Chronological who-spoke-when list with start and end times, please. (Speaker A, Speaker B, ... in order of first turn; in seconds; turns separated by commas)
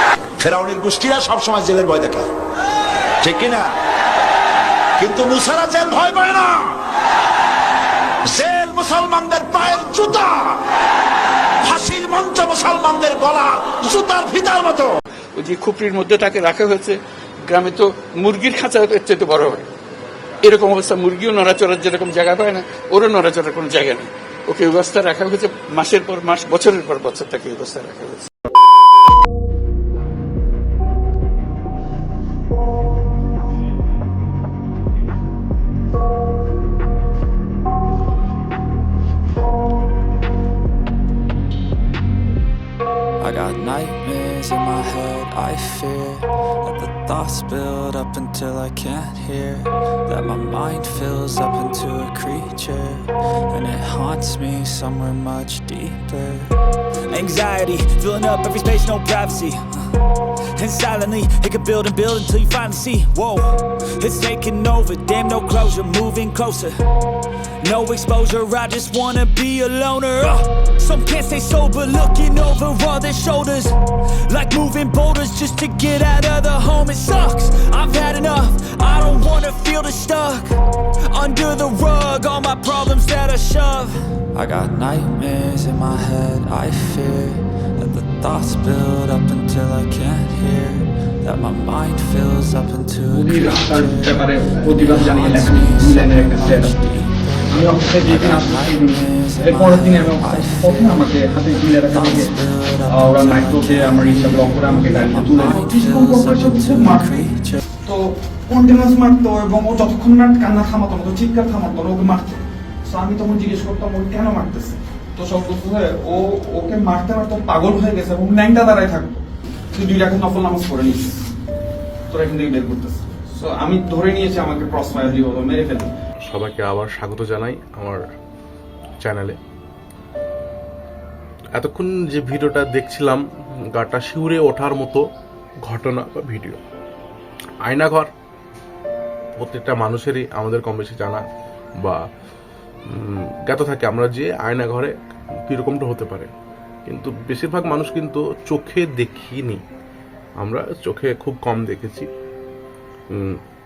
Speaker A: 0.4-2.3, Speaker A: 3.2-3.7, Speaker A: 5.0-6.8, Speaker A: 8.2-10.6, Speaker A: 11.6-14.9, Speaker B: 15.4-17.0, Speaker B: 17.5-19.6, Speaker B: 20.5-28.2, Speaker C: 43.2-49.6, Speaker C: 50.2-53.0, Speaker C: 53.6-56.5, Speaker D: 54.8-56.1, Speaker D: 57.1-59.6, Speaker D: 60.6-63.5, Speaker D: 64.0-66.7, Speaker D: 67.6-73.8, Speaker D: 74.3-78.9, Speaker C: 76.6-78.1, Speaker C: 78.9-80.4, Speaker D: 79.5-80.1, Speaker D: 81.2-81.4, Speaker C: 81.4-83.7, Speaker D: 82.0-85.0, Speaker C: 85.3-87.2, Speaker C: 88.0-88.8, Speaker C: 89.4-90.6, Speaker D: 91.3-92.8, Speaker E: 93.0-121.2, Speaker D: 94.7-95.4, Speaker C: 95.6-96.0, Speaker C: 96.8-97.2, Speaker D: 97.7-98.2, Speaker C: 99.1-99.5, Speaker D: 100.1-102.0, Speaker D: 102.8-103.4, Speaker D: 104.8-105.3, Speaker D: 105.9-106.2, Speaker E: 122.1-125.9, Speaker F: 126.3-128.0, Speaker F: 129.0-129.4, Speaker F: 131.6-135.0, Speaker F: 135.7-136.6, Speaker F: 137.7-138.1, Speaker F: 139.4-141.2, Speaker F: 142.9-144.9, Speaker F: 145.5-146.3, Speaker F: 146.9-149.6, Speaker F: 150.4-152.1, Speaker F: 153.1-153.4